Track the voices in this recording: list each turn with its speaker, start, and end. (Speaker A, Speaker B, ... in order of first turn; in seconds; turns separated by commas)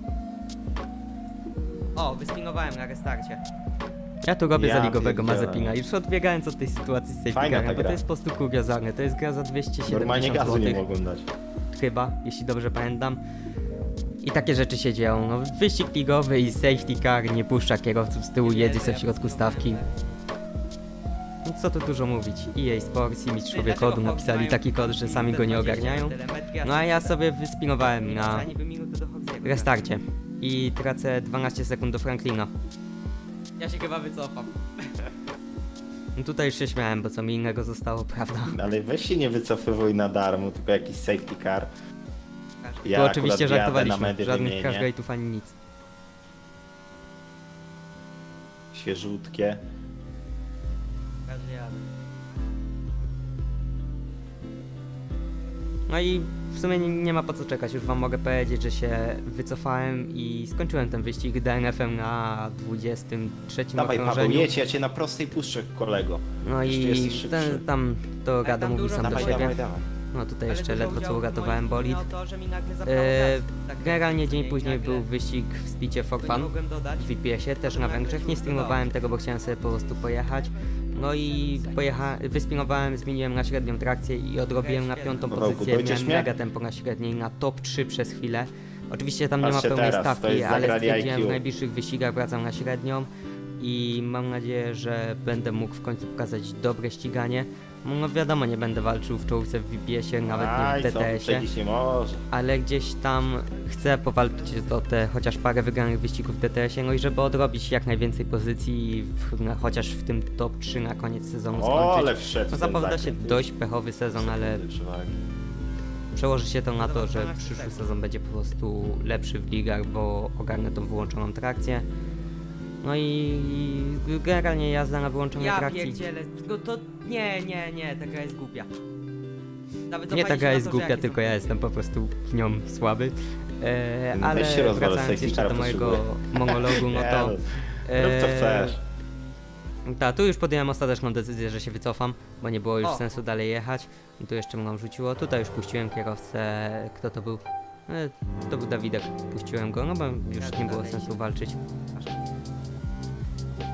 Speaker A: 1.9-3.4, Speaker B: 4.2-10.8, Speaker C: 4.5-5.8, Speaker C: 7.3-8.0, Speaker C: 9.8-11.3, Speaker B: 11.7-13.2, Speaker B: 14.2-19.8, Speaker A: 18.4-20.2, Speaker B: 21.4-28.5, Speaker A: 23.5-27.2, Speaker A: 27.8-29.7, Speaker B: 29.4-32.5, Speaker A: 33.6-35.1, Speaker B: 36.1-38.6, Speaker C: 38.5-41.7, Speaker C: 42.8-44.9, Speaker B: 42.8-45.5, Speaker C: 48.7-49.6, Speaker A: 51.3-51.9, Speaker B: 55.9-64.5, Speaker C: 63.8-67.6, Speaker B: 66.4-69.6, Speaker A: 68.4-69.6, Speaker C: 69.0-69.9, Speaker B: 70.1-72.0, Speaker A: 70.5-75.1, Speaker B: 72.8-93.1, Speaker A: 76.2-79.0, Speaker A: 84.5-85.3, Speaker C: 85.3-86.3, Speaker C: 89.4-91.4, Speaker B: 93.6-101.5, Speaker C: 100.2-102.2, Speaker B: 102.3-114.6, Speaker C: 111.5-113.5, Speaker C: 114.1-115.2, Speaker B: 116.1-121.8, Speaker A: 116.8-118.0, Speaker B: 122.8-126.0, Speaker A: 125.3-128.7, Speaker A: 129.9-131.6, Speaker B: 130.1-138.8, Speaker C: 134.1-138.8, Speaker B: 139.8-151.6, Speaker A: 142.8-143.2, Speaker A: 150.3-151.2, Speaker A: 151.9-152.2